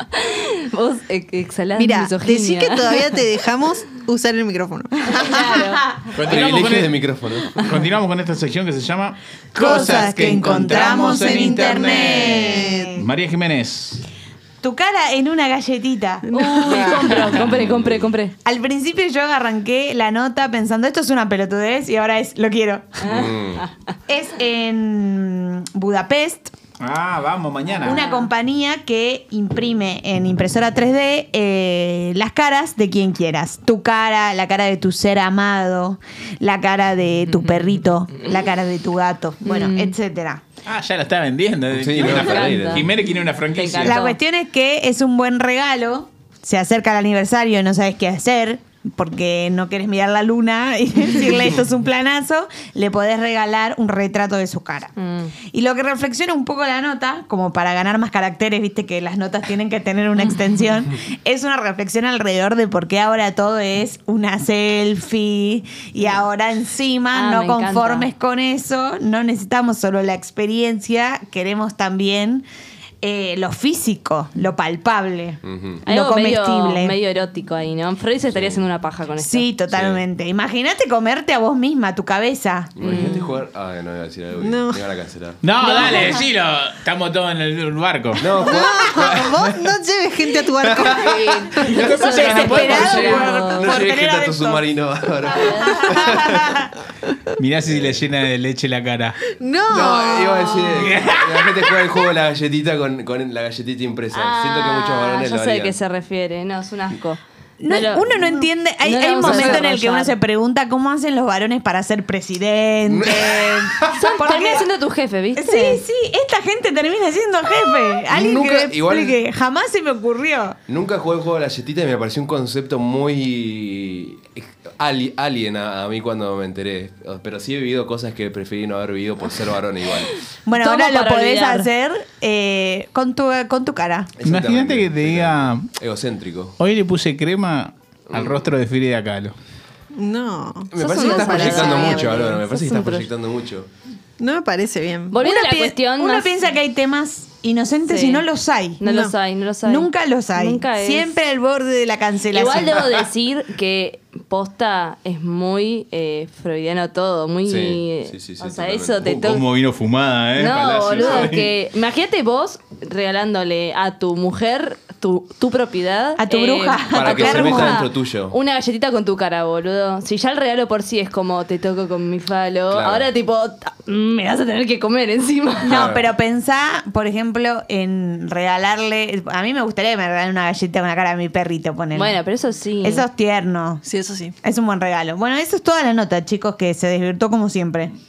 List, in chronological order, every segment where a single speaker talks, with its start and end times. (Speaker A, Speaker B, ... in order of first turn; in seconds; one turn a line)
Speaker A: 0.2-3.0
Speaker B: 1.8-5.7
Speaker A: 5.1-5.9
Speaker C: 6.1-7.0
Speaker D: 6.2-7.6
Speaker C: 7.5-14.1
Speaker E: 9.6-13.1
Speaker B: 9.8-13.0
Speaker E: 14.6-16.3
Speaker A: 16.3-18.3
Speaker B: 16.3-17.4
Speaker C: 16.7-17.6
Speaker D: 17.4-18.0
Speaker E: 18.4-23.1
Speaker A: 23.0-23.7
Speaker D: 23.1-23.6
Speaker E: 24.1-26.5
Speaker C: 26.8-28.0
Speaker E: 27.8-40.4
Speaker A: 27.9-28.3
Speaker A: 37.3-38.3
Speaker A: 39.5-39.9
Speaker C: 40.7-44.0
Speaker D: 41.7-42.9
Speaker A: 42.0-42.9
Speaker A: 43.5-44.2
Speaker E: 43.8-54.9
Speaker A: 55.0-55.3
Speaker E: 55.5-72.5
Speaker A: 67.1-68.1
Speaker E: 73.0-77.0
Speaker D: 75.4-75.8
Speaker A: 75.8-79.5
Speaker D: 78.3-78.6
Speaker E: 79.2-82.7
Speaker D: 79.7-80.0
Speaker D: 82.8-86.2
Speaker A: 82.8-83.4
Speaker B: 84.4-85.0
Speaker C: 85.4-88.3
Speaker B: 85.6-86.0
Speaker D: 88.2-89.7
Speaker B: 88.4-91.8
Speaker D: 90.6-96.5
Speaker A: 91.0-93.8
Speaker C: 91.6-93.2
Speaker E: 91.8-94.6
Speaker A: 95.3-96.0
Speaker E: 95.6-96.7
Speaker C: 97.4-99.3
Speaker D: 97.7-98.0
Speaker B: 99.4-101.0
Speaker D: 99.7-105.8
Speaker C: 100.8-101.7
Speaker A: 104.1-108.1
Speaker E: 107.6-114.7
Speaker A: 108.8-110.2
Speaker D: 109.2-109.6
Speaker D: 112.8-114.0
Speaker A: 114.0-115.8
Speaker E: 115.4-120.6
Speaker D: 118.1-119.2
Speaker D: 120.7-130.2
Speaker E: 130.5-134.1
Speaker A: 130.6-131.7
Speaker D: 134.2-136.6
Speaker C: 134.2-135.7
Speaker C: 136.6-139.4
Speaker D: 138.1-138.5
Speaker B: 139.9-142.2
Speaker D: 140.7-143.7
Speaker A: 140.8-143.1
Speaker B: 144.2-145.2
Speaker A: 145.1-146.3
Speaker E: 145.2-148.8
Speaker A: 147.8-148.3
Speaker A: 148.8-151.2
Speaker B: 148.8-149.1
Speaker E: 149.6-152.8
Speaker A: 152.3-159.4
Speaker D: 157.4-159.3
Speaker C: 159.1-161.5
Speaker A: 160.4-175.8
Speaker E: 166.2-167.8
Speaker D: 166.9-168.3
Speaker D: 172.7-173.1
Speaker E: 175.7-182.2
Speaker D: 175.7-176.1
Speaker A: 181.9-183.1
Speaker E: 182.8-183.8
Speaker B: 183.8-184.3
Speaker E: 184.4-187.9